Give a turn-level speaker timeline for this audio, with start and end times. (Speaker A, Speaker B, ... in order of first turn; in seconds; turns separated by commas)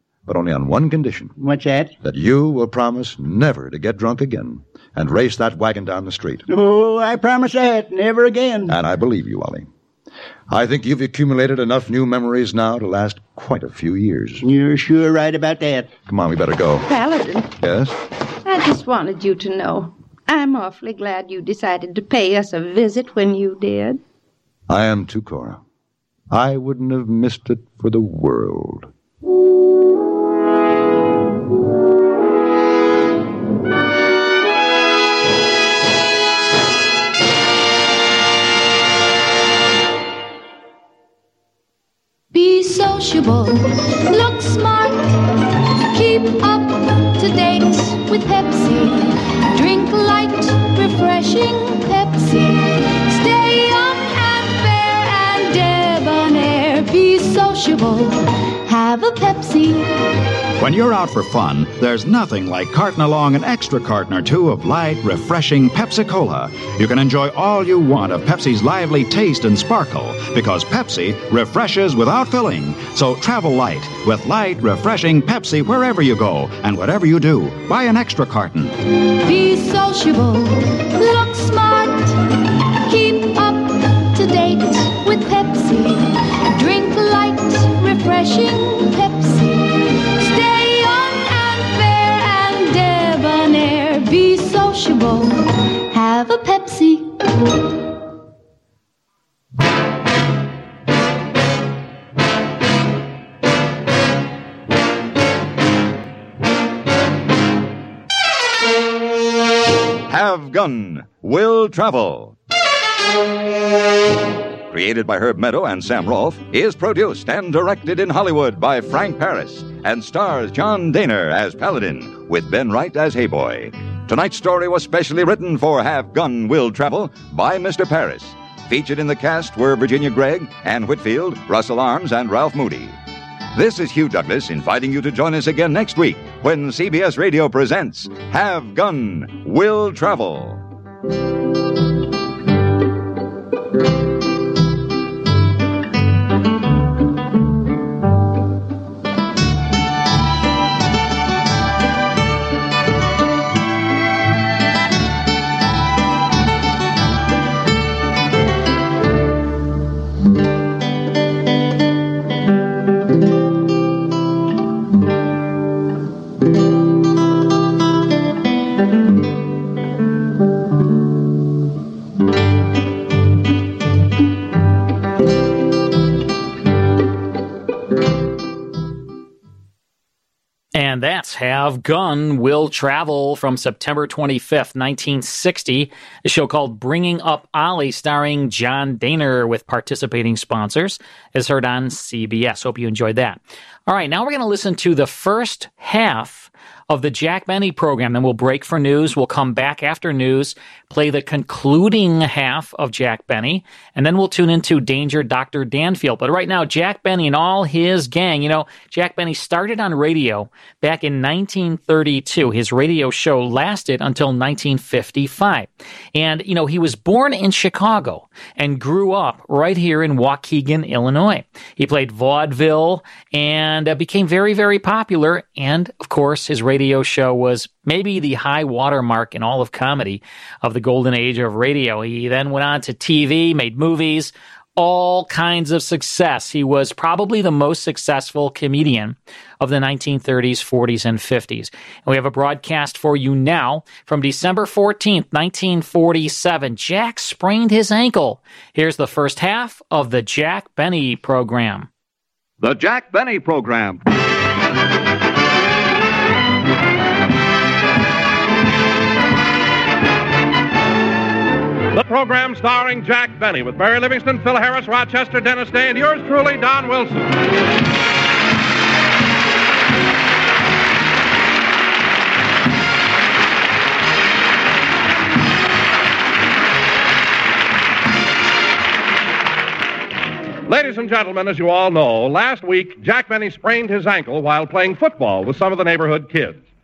Speaker A: 0.3-1.4, Speaker B: 1.4-1.9, Speaker A: 2.0-6.4, Speaker B: 6.5-8.8, Speaker A: 8.7-9.7, Speaker A: 10.5-14.4, Speaker B: 14.4-15.9, Speaker A: 16.1-16.9, Speaker C: 16.9-17.5, Speaker A: 17.6-17.9, Speaker C: 18.4-24.0, Speaker A: 24.7-25.6, Speaker A: 26.3-28.9, Speaker D: 42.3-45.2, Speaker D: 45.9-59.9, Speaker E: 60.6-78.7, Speaker D: 79.2-82.2, Speaker D: 82.9-97.2, Speaker F: 110.1-112.3, Speaker F: 114.7-132.9, Speaker F: 133.5-140.6, Speaker G: 180.8-251.9, Speaker H: 261.9-267.3, Speaker H: 280.7-286.6